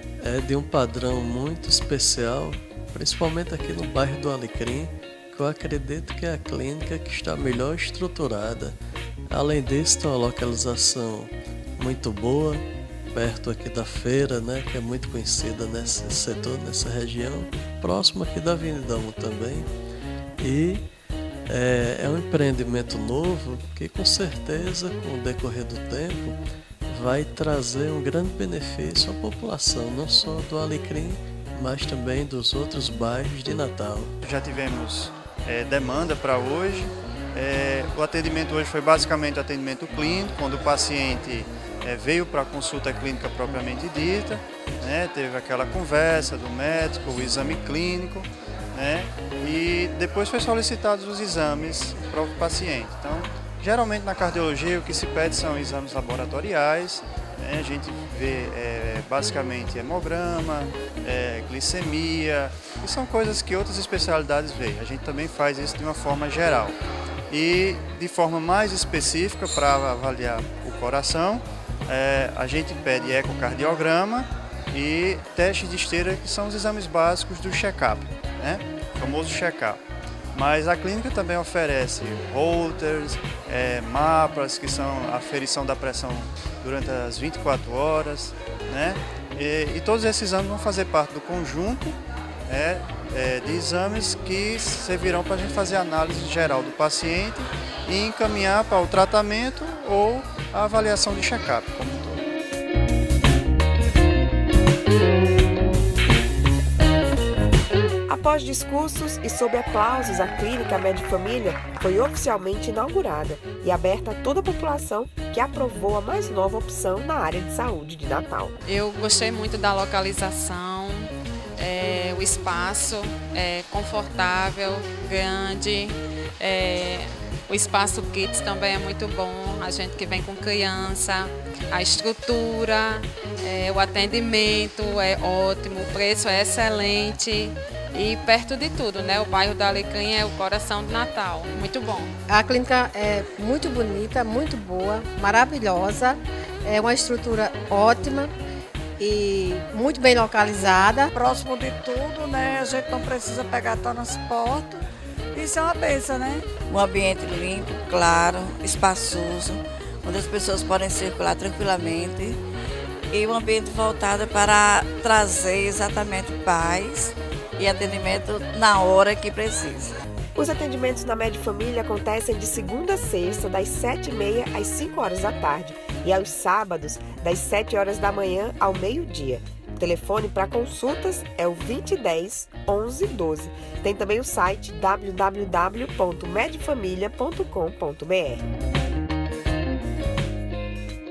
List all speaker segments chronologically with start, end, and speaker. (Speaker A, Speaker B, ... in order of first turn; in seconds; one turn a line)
Speaker A: 0.2-8.8
Speaker A: 9.3-19.7
Speaker A: 20.4-20.9
Speaker A: 21.5-34.1
Speaker B: 34.2-66.8
Speaker B: 67.3-79.8
Speaker B: 80.3-102.2
Speaker C: 108.1-118.6
Speaker D: 118.7-142.1
Speaker E: 142.3-148.3
Speaker E: 149.0-151.1
Speaker F: 151.1-156.5
Speaker G: 156.7-162.4
Speaker G: 163.1-169.9
Speaker C: 170.4-188.5